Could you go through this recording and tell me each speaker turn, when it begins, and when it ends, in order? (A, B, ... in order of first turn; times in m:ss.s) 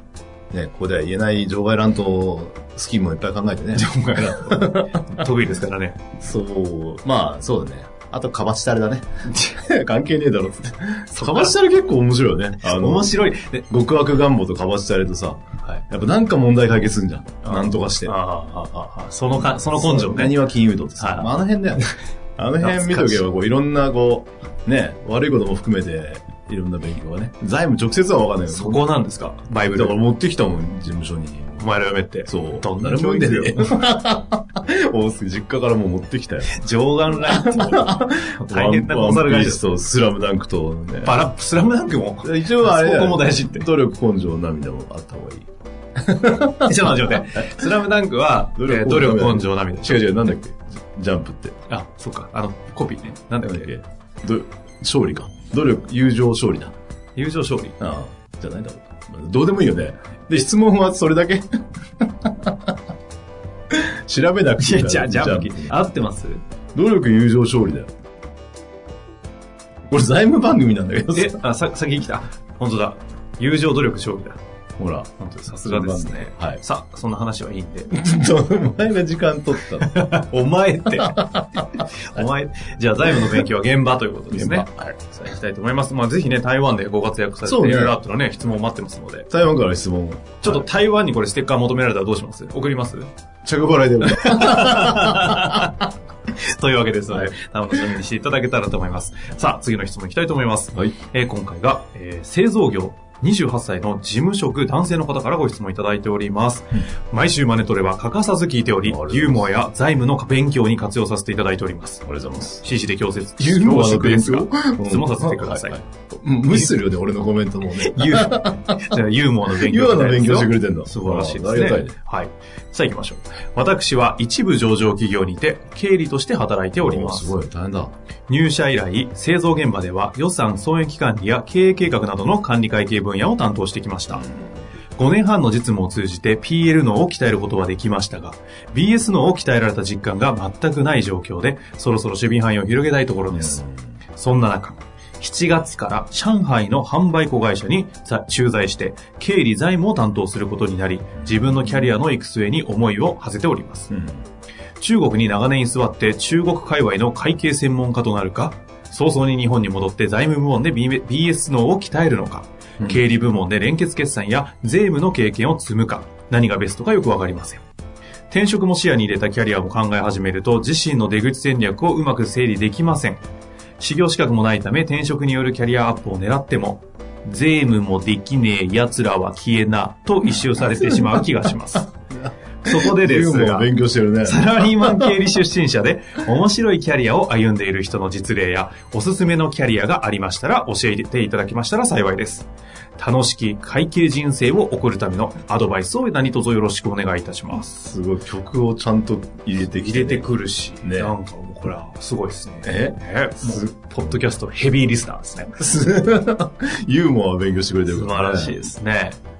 0:00.5-0:05.2 A
0:03.8-0:06.0 B
0:06.2-0:18.1 A
0:11.1-0:11.5 B
0:12.6-0:13.6 B
0:17.4-0:20.4 B
0:19.5-0:28.8 A
0:21.0-0:21.9 B
0:22.6-0:23.2 B
0:28.5-0:30.0 B
0:29.7-0:31.7 A
0:31.6-0:33.7 B
0:32.2-0:36.6 A
0:36.5-0:39.7 B
0:37.2-0:41.2 A
0:41.0-0:43.7 B
0:42.2-0:47.5 A
0:46.6-0:50.2 B
0:48.5-0:51.6 A
0:51.7-0:53.7 B
0:53.4-0:56.7 A
0:57.2-0:57.8 B
0:57.8-1:02.7 A
1:03.7-1:05.8 A
1:04.6-1:06.4 B
1:06.7-1:07.9 A
1:09.9-1:11.4 A
1:11.1-1:14.4 B
1:14.8-1:15.1 A
1:15.2-1:17.9 B
1:15.6-1:16.6 A
1:17.9-1:19.9 A
1:19.7-1:29.3 B
1:21.0-1:21.7 A
1:23.1-1:23.4 A
1:24.3-1:24.9 A
1:27.4-1:28.0 A
1:29.3-1:30.6 A
1:30.4-1:33.1 B
1:33.4-1:35.8 A
1:34.1-1:35.8 B
1:36.4-1:52.0 B
1:48.8-1:49.5 A
1:52.0-1:52.6 A
1:52.6-1:55.8 B
1:53.4-2:01.9 A
1:57.8-2:07.3 B
2:06.8-2:07.9 A
2:08.3-2:14.2 B
2:14.1-2:14.6 A
2:15.0-2:23.6 B
2:23.3-2:23.9 A
2:24.2-2:33.9 B
2:31.2-2:31.9 A
2:33.9-2:34.2 A
2:34.8-2:47.6 B
2:48.3-2:53.2 B
2:53.8-3:01.9 B
3:00.5-3:01.2 A
3:02.1-3:05.2 A
3:02.6-3:03.7 B
3:04.2-3:17.7 B
3:17.6-3:20.3 A
3:19.6-3:25.6 B
3:20.8-3:21.2 A
3:22.6-3:24.2 A
3:25.6-3:28.7 A
3:27.9-3:29.2 B